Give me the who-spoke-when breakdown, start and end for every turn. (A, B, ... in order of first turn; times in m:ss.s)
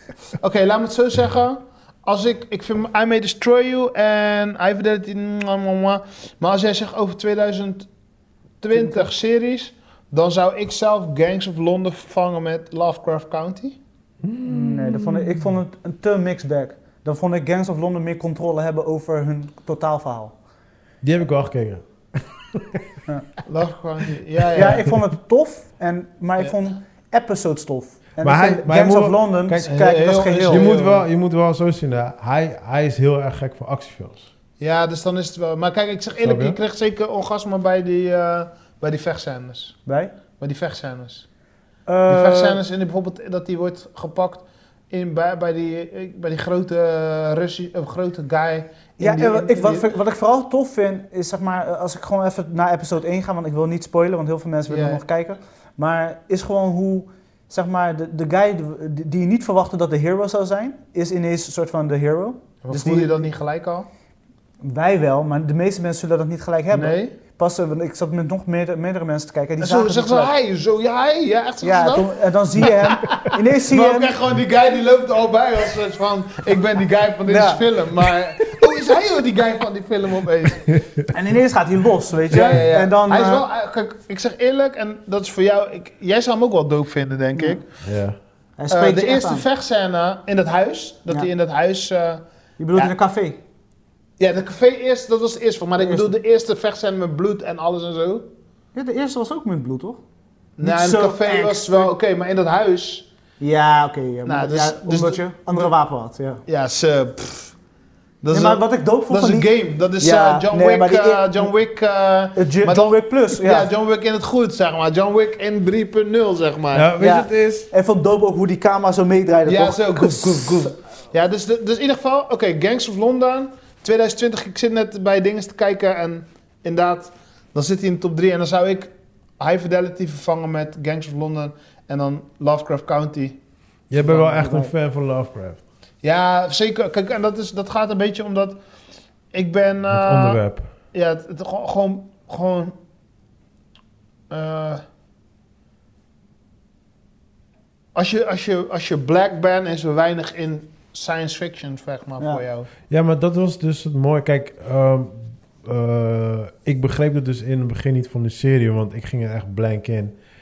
0:00.4-0:07.9 A
0:08.6-0:13.8 A
0:08.7-0:09.0 B
0:14.2-0:15.4 C
0:14.4-0:20.3 B
0:21.0-0:22.9 C
0:23.4-0:24.9 A
0:24.5-0:30.6 B
0:28.2-0:29.7 C
0:29.6-0:31.0 A
0:30.4-0:34.3 C
0:34.6-0:39.8 A
0:36.2-0:36.6 C
0:39.8-0:40.1 B
0:40.4-0:41.2 A
0:41.9-0:42.6 B
0:42.1-0:49.9 A
0:49.0-1:03.2 B
0:54.7-0:55.0 A
1:02.6-1:03.9 A
1:04.6-1:10.3 B
1:06.7-1:07.2 A
1:09.6-1:20.8 A
1:11.6-1:14.2 B
1:17.3-1:18.1 B
1:20.7-1:21.0 C
1:21.1-1:23.4 B
1:22.3-1:27.6 A
1:27.3-1:27.6 B
1:27.8-1:28.2 C
1:28.6-1:29.4 B
1:28.7-1:32.9 A
1:32.6-1:33.4 B
1:34.2-1:38.2 A
1:35.8-1:36.1 B
1:38.7-1:40.0 B
1:40.6-1:43.0 A
1:40.6-1:41.9 B
1:43.4-1:46.4 B
1:44.2-1:45.7 A
1:46.4-1:47.5 A
1:48.2-1:56.9 A
1:48.3-1:51.5 B
1:52.4-1:53.7 B
1:56.7-1:57.7 C
1:57.0-2:00.7 B
1:59.5-2:13.4 A
2:13.9-2:15.6 C
2:14.0-2:14.7 B
2:16.0-2:18.6 A
2:19.3-2:22.7 A
2:19.9-2:20.7 C
2:24.3-2:24.8 A
2:27.9-2:32.7 A
2:32.9-2:40.1 C